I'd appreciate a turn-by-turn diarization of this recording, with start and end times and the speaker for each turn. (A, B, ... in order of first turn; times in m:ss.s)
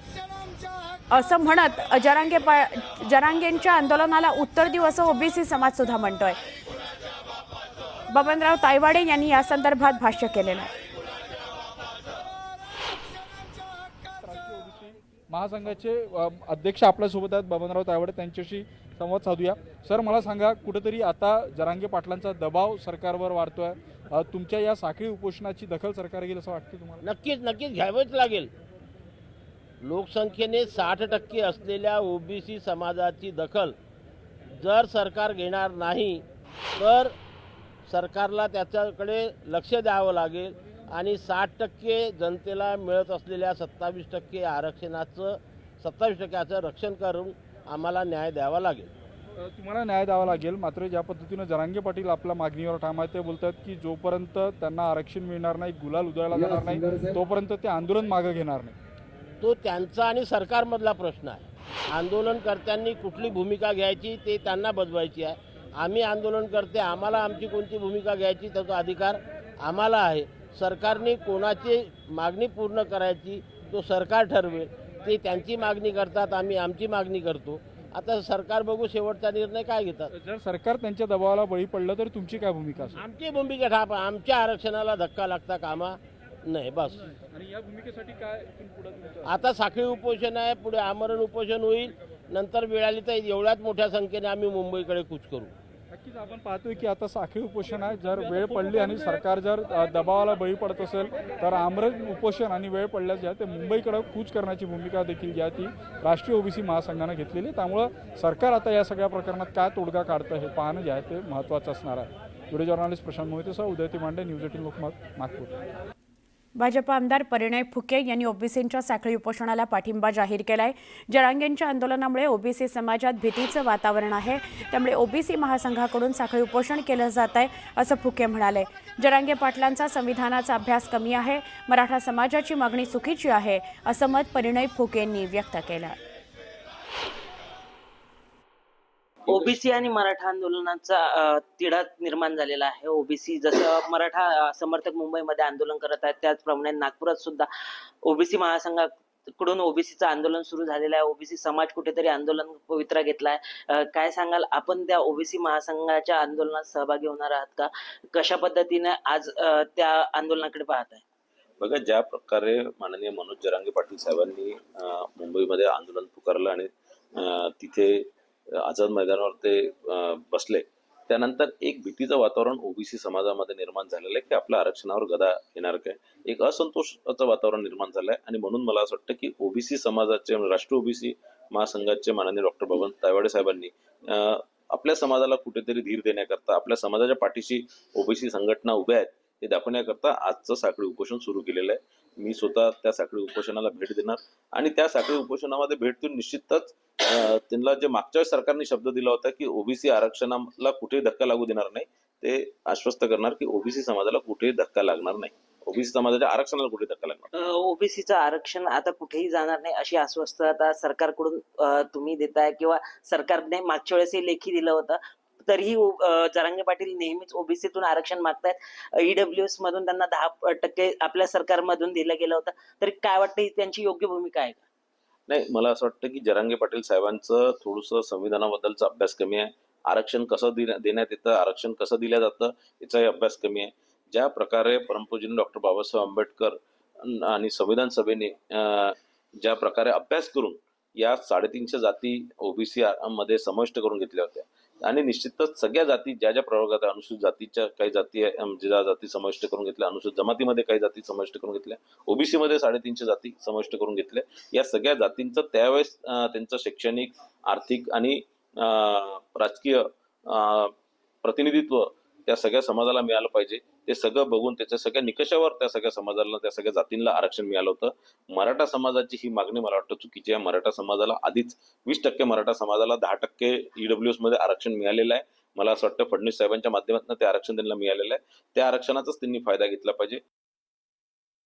0:01.1-0:06.4 A
0:08.1-0:10.7 A
0:14.2-0:27.0 B
0:27.0-0:28.5 C
0:29.8-0:33.8 C
0:34.5-0:36.2 C
0:36.8-0:37.1 C
0:37.9-0:48.9 C
0:49.5-0:58.8 B
0:59.4-1:20.1 C
1:20.2-1:23.0 B
1:23.0-1:27.1 C
1:27.3-1:29.4 B
1:29.2-1:35.5 C
1:35.9-1:55.5 B
1:56.6-2:16.0 A
2:19.3-2:27.5 D
2:28.0-2:41.0 D
2:41.6-3:27.3 E
3:27.4-3:44.6 D
3:45.3-4:20.7 E
4:21.2-4:40.2 E